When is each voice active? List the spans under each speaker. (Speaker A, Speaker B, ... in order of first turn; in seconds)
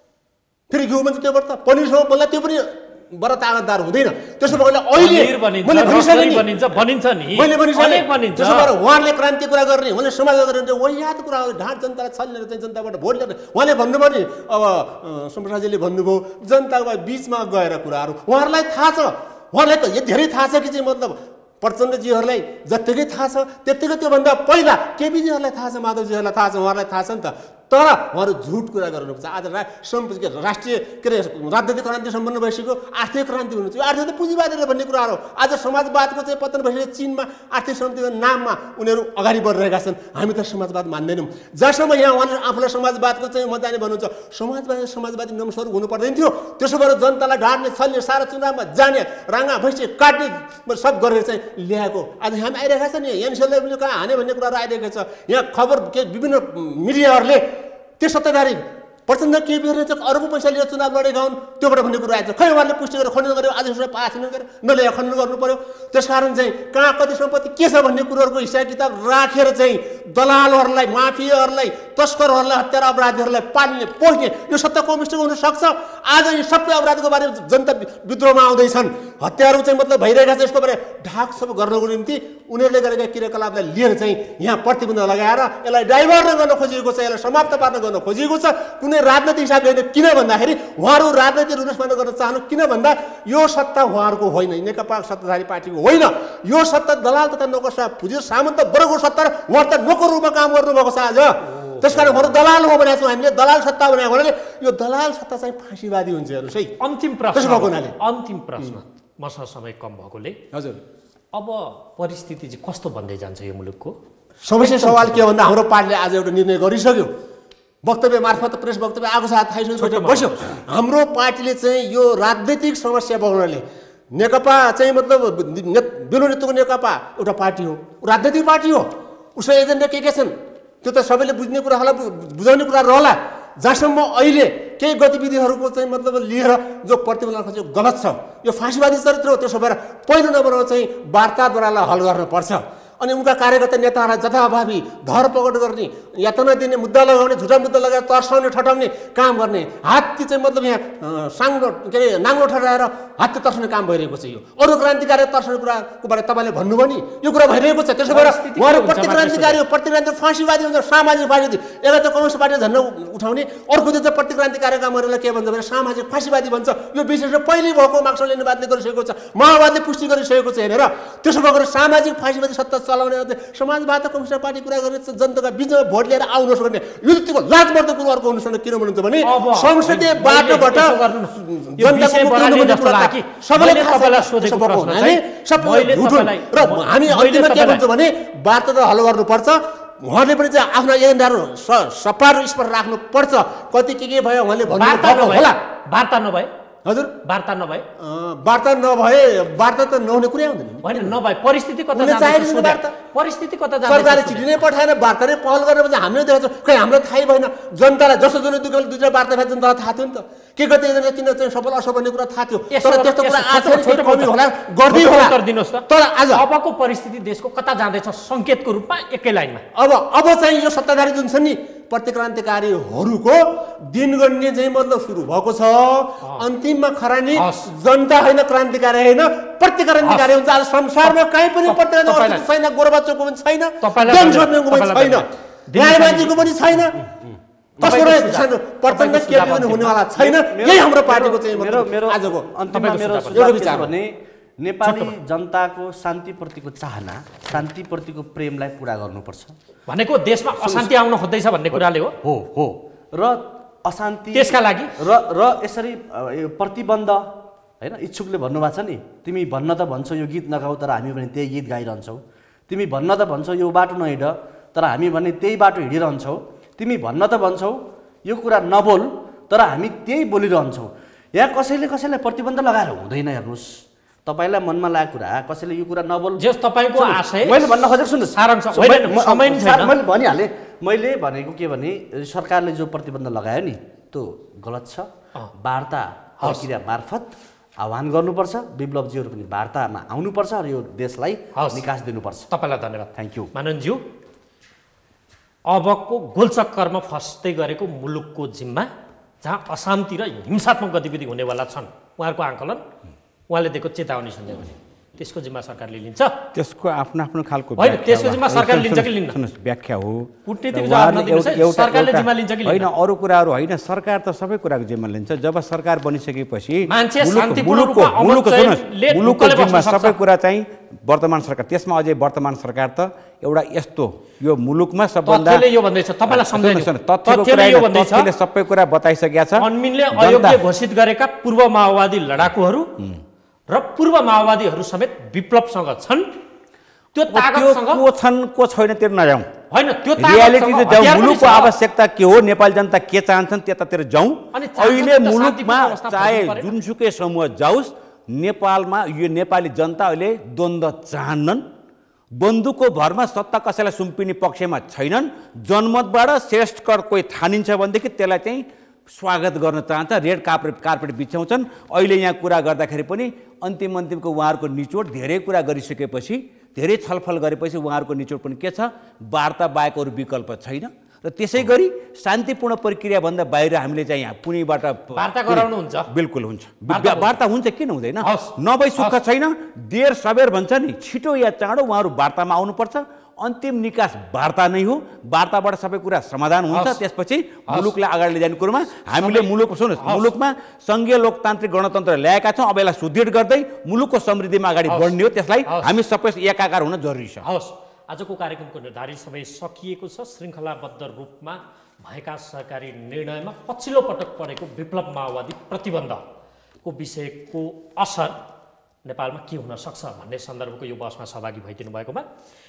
Speaker A: 0.7-6.5, 7.3-57.4, 58.0-106.7, 107.3-108.0, 110.5-110.8, 114.5-117.1, 117.8-195.6, 196.8-197.1, 198.0-201.2, 201.9-202.9, 203.9-216.4, 219.8-237.0, 237.8-242.5, 243.3-243.9
Speaker B: 5.0-8.7, 101.4-102.4, 106.8-110.4, 111.3-114.0, 114.6-115.2, 119.8-120.6, 158.1-159.6, 179.2-187.8, 194.7-196.5, 197.2-197.9, 200.8-204.6, 212.7-214.3, 214.9-219.7, 227.3-227.7, 230.0-230.3, 231.7-232.4, 233.8-236.5, 237.8-240.0, 242.7-243.6, 244.8-245.2, 249.9-252.2, 254.3-254.9, 276.4-277.8, 278.3-279.9, 291.6-291.8, 292.5-294.0, 295.7-298.9, 299.4-302.8, 303.5-306.4, 307.8-309.4, 310.5-312.9, 316.9-320.2, 325.3-328.3, 329.6-332.9, 333.7-336.3, 337.1-338.0, 339.7-341.7, 344.5-346.7, 375.1-376.1, 376.9-377.3, 378.2-379.2, 386.7-387.0, 387.7-387.9, 389.2-390.3, 395.7-395.9, 397.4-406.2, 406.8-408.4, 409.1-412.3
Speaker C: 236.9-238.1, 240.2-249.6, 250.6-250.9, 251.7-257.3, 257.8-285.1, 285.6-292.5, 293.2-293.5
Speaker D: 306.6-325.6, 326.3-330.6, 337.3-339.5, 340.2-351.6, 352.4-397.4